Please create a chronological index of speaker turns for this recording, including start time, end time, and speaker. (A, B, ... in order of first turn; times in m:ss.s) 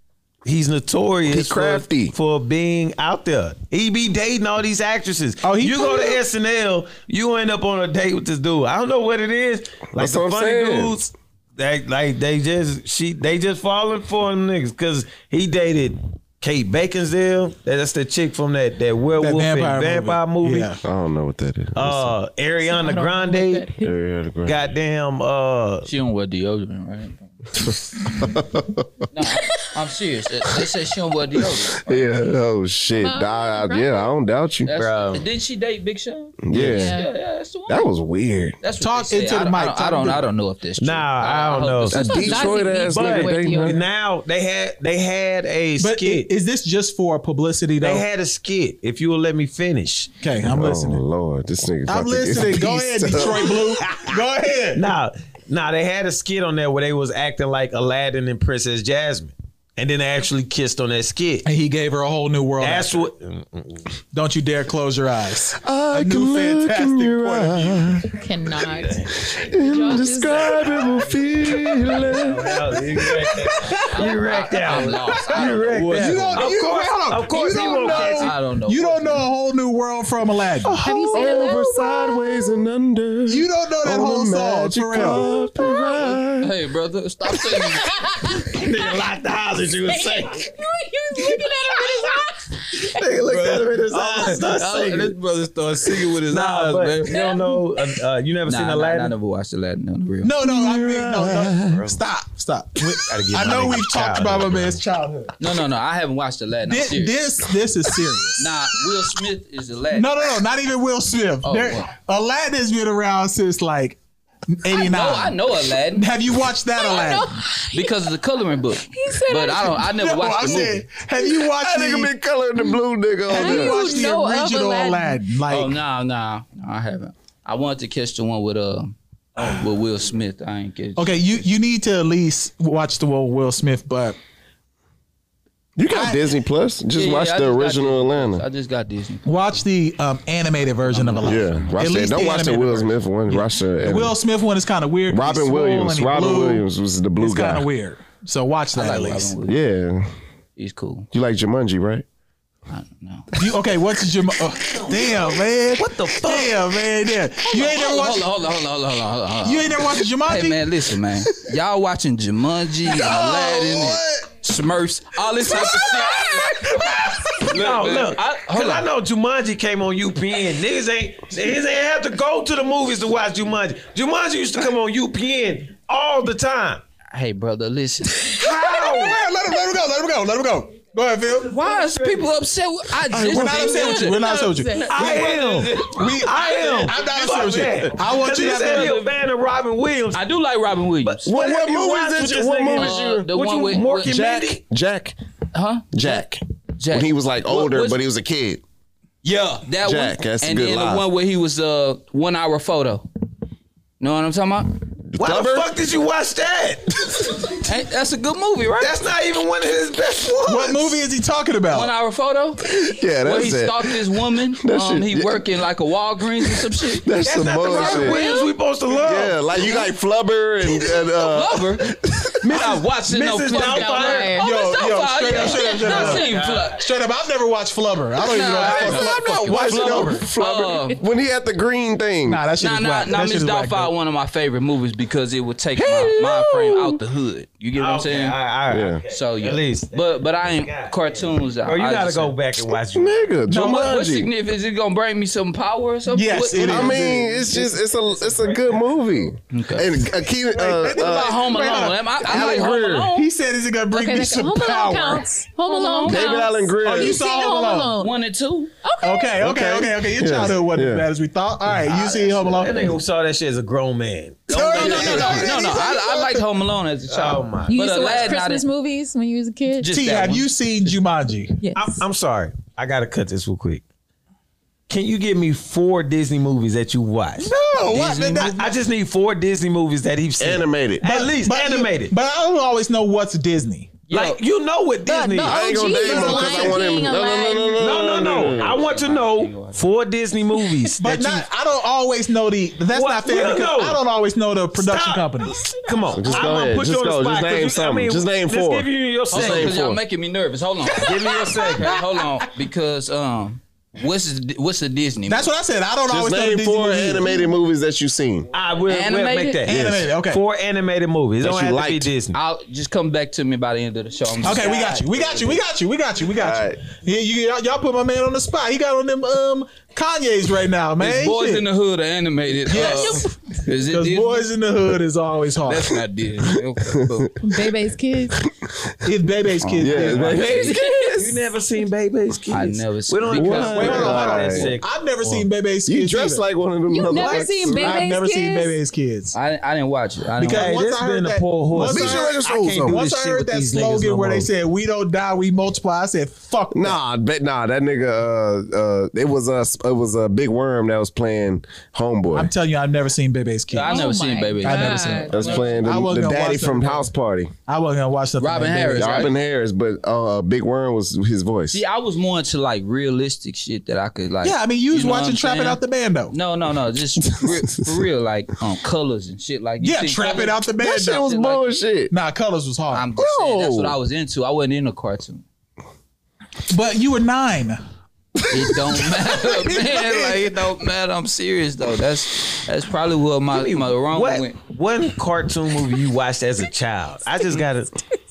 0:00.4-0:20.7 A
0:01.3-0:02.1 B
0:05.4-0:06.2 C
0:10.0-0:11.0 B
0:19.2-0:20.8 C
0:20.8-0:22.1 B
0:21.8-0:23.7 A
0:22.6-0:23.9 D
0:23.8-0:24.6 B
0:24.4-0:25.9 A
0:25.8-0:27.3 E
0:27.6-0:29.0 B
0:29.1-0:32.2 E
0:31.8-0:34.7 B
0:32.9-0:34.1 D
0:34.6-0:37.9 E
0:34.8-0:35.2 A
0:36.4-0:37.0 B
0:36.5-0:37.1 D
0:37.7-0:38.6 B
0:38.6-0:42.4 E
0:38.8-0:40.3 C
0:40.8-0:46.3 A
0:41.9-0:43.8 B
0:41.9-0:43.8 D
0:45.8-0:48.0 C
0:47.8-0:50.1 A
0:50.2-0:51.0 C
0:50.4-0:53.7 B
0:51.9-0:54.8 C
0:53.2-0:54.1 A
0:54.8-1:01.4 A
1:01.4-1:03.1 C
1:02.6-1:03.8 A
1:04.1-1:08.0 C
1:05.5-1:08.2 B
1:08.2-1:12.1 D
1:08.6-1:09.4 A
1:09.2-1:12.8 B
1:10.6-1:18.3 A
1:13.3-1:13.9 C
1:13.9-1:16.5 E
1:15.4-1:21.1 C
1:17.5-1:19.2 E
1:20.8-1:22.5 D
1:21.1-1:26.5 B
1:23.3-1:25.2 C
1:25.0-1:26.2 D
1:26.4-1:28.0 E
1:27.5-1:28.8 D
1:28.5-1:30.5 A
1:29.9-1:33.1 D
1:31.4-1:32.1 A
1:32.9-1:35.2 A
1:33.2-1:37.4 E
1:36.0-1:39.1 A
1:37.1-1:37.6 D
1:38.5-1:40.4 E
1:40.2-1:45.4 C
1:40.5-1:41.8 B
1:41.4-1:42.0 A
1:43.0-1:44.8 A
1:45.4-1:47.2 E
1:46.6-1:48.5 C
1:48.4-1:50.1 E
1:49.9-1:54.0 C
1:51.4-1:51.9 E
1:54.5-1:55.4 C
1:54.7-1:56.1 E
1:55.9-1:57.4 C
1:56.7-1:58.0 D
1:57.7-2:00.9 E
1:58.9-1:59.9 D
1:59.9-2:02.1 C
2:01.2-2:04.0 B
2:03.3-2:05.7 C
2:03.3-2:05.2 D
2:05.5-2:11.3 E
2:11.0-2:14.2 C
2:15.8-2:18.4 B
2:15.9-2:16.3 C
2:16.9-2:19.2 E
2:19.2-2:26.6 C
2:20.9-2:22.0 E
2:21.2-2:24.1 B
2:25.1-2:27.6 B
2:27.2-2:29.3 C
2:28.7-2:29.6 E
2:29.4-2:30.1 B
2:30.6-2:31.1 E
2:31.1-2:32.0 B
2:32.7-2:33.3 E
2:33.4-2:38.3 C
2:35.8-2:36.6 A
2:37.4-2:46.8 E
2:39.4-2:40.6 C
2:42.8-2:44.3 B
2:45.4-2:46.4 B
2:47.4-2:48.9 E
2:47.5-2:56.8 A
2:57.1-2:58.4 E
2:58.2-2:59.2 A
2:58.4-3:01.5 C
3:01.5-3:06.9 E
3:01.6-3:02.3 A
3:03.1-3:09.0 C
3:03.6-3:05.0 D
3:04.9-3:10.2 A
3:08.2-3:09.1 E
3:10.1-3:11.3 E
3:11.0-3:14.6 A
3:11.2-3:13.3 B
3:12.7-3:14.4 E
3:14.1-3:15.2 B
3:15.5-3:16.2 E
3:15.9-3:18.6 B
3:16.8-3:18.0 E
3:19.2-3:23.1 E
3:19.8-3:21.0 B
3:24.0-3:24.8 E
3:25.1-3:25.7 B
3:25.2-3:27.6 A
3:27.6-3:28.9 E
3:28.8-3:30.9 A
3:30.4-3:31.9 C
3:31.7-3:38.4 E
3:32.7-3:35.4 B
3:36.4-3:38.2 B
3:37.2-3:39.4 A
3:38.9-3:42.4 B
3:41.0-3:41.9 E
3:42.4-3:46.8 E
3:42.4-3:44.4 A
3:43.5-3:44.5 D
3:44.4-3:50.2 C
3:45.2-3:46.8 A
3:48.2-3:51.0 E
3:48.6-3:52.4 B
3:52.2-3:53.9 C
3:52.6-3:58.4 E
3:55.7-3:57.0 B
3:57.7-4:03.3 A
3:58.7-3:59.0 B
3:59.1-4:02.3 E
4:02.9-4:04.3 B
4:03.5-4:03.9 C
4:03.5-4:07.6 E
4:06.1-4:07.4 C
4:06.6-4:11.4 B
4:08.2-4:08.7 A
4:09.5-4:10.1 E
4:10.5-4:16.0 C
4:10.9-4:13.3 E
4:12.2-4:13.1 B
4:13.9-4:18.2 D
4:16.0-4:16.3 E
4:16.0-4:17.2 B
4:16.8-4:18.0 C
4:18.0-4:18.7 E
4:18.8-4:19.4 D
4:19.0-4:22.9 C
4:19.4-4:21.0 B
4:21.8-4:25.8 A
4:24.5-4:26.3 C
4:24.5-4:28.6 E
4:25.0-4:25.5 B
4:27.1-4:28.3 A
4:27.7-4:29.9 D
4:29.8-4:30.5 E
4:29.9-4:31.6 C
4:31.6-4:32.0 D
4:31.7-4:33.8 A
4:34.9-4:37.5 A
4:37.4-4:38.6 C
4:37.8-4:38.6 E
4:38.4-4:42.1 A
4:40.4-4:41.0 B
4:41.0-4:44.0 C
4:44.1-4:45.8 A
4:44.1-4:44.4 E
4:45.0-4:48.1 D
4:45.4-4:48.8 B
4:46.0-4:46.8 C
4:47.8-4:51.4 A
4:48.2-4:49.8 E
4:51.0-4:55.7 C
4:52.9-4:54.0 A
4:54.8-4:59.8 A
4:56.1-5:00.0 B
4:59.3-5:05.5 E
5:01.0-5:02.0 A
5:05.3-5:07.3 C
5:06.1-5:08.5 B
5:08.5-5:12.4 A
5:08.9-5:09.6 E
5:09.7-5:10.0 B
5:09.7-5:10.4 C
5:11.4-5:12.1 B
5:12.3-5:15.6 E
5:14.4-5:21.6 C
5:16.4-5:16.8 B
5:21.0-5:24.5 E
5:22.7-5:23.3 C
5:22.7-5:23.2 D
5:23.8-5:26.0 C
5:25.6-5:27.4 E
5:26.9-5:27.3 B
5:27.4-5:28.4 D
5:28.5-5:28.9 B
5:29.0-5:30.6 C
5:29.6-5:31.1 E
5:29.8-5:31.1 B
5:30.7-5:31.1 D
5:31.0-5:35.4 A
5:32.5-5:34.3 E
5:33.3-5:34.7 B
5:33.7-5:36.4 C
5:35.9-5:38.0 B
5:36.9-5:38.8 D
5:37.1-5:39.4 C
5:39.3-5:40.8 E
5:40.4-5:47.0 C
5:40.4-5:44.5 A
5:41.8-5:43.0 B
5:46.7-5:52.5 B
5:52.3-5:54.1 C
5:53.7-5:55.8 E
5:53.8-5:55.7 D
5:54.6-5:57.1 C
5:55.3-5:57.5 B
5:57.7-5:59.3 C
5:58.4-5:59.3 E
5:58.9-6:01.8 B
6:01.7-6:05.8 E
6:04.4-6:06.3 C
6:06.3-6:10.6 E
6:07.3-6:08.0 B
6:09.8-6:11.3 C
6:10.8-6:12.1 B
6:11.1-6:11.8 E
6:12.1-6:13.1 C
6:12.9-6:15.4 E
6:13.2-6:14.0 B
6:16.7-6:17.8 C
6:18.5-6:24.6 E
6:19.8-6:20.3 C
6:23.5-6:27.9 A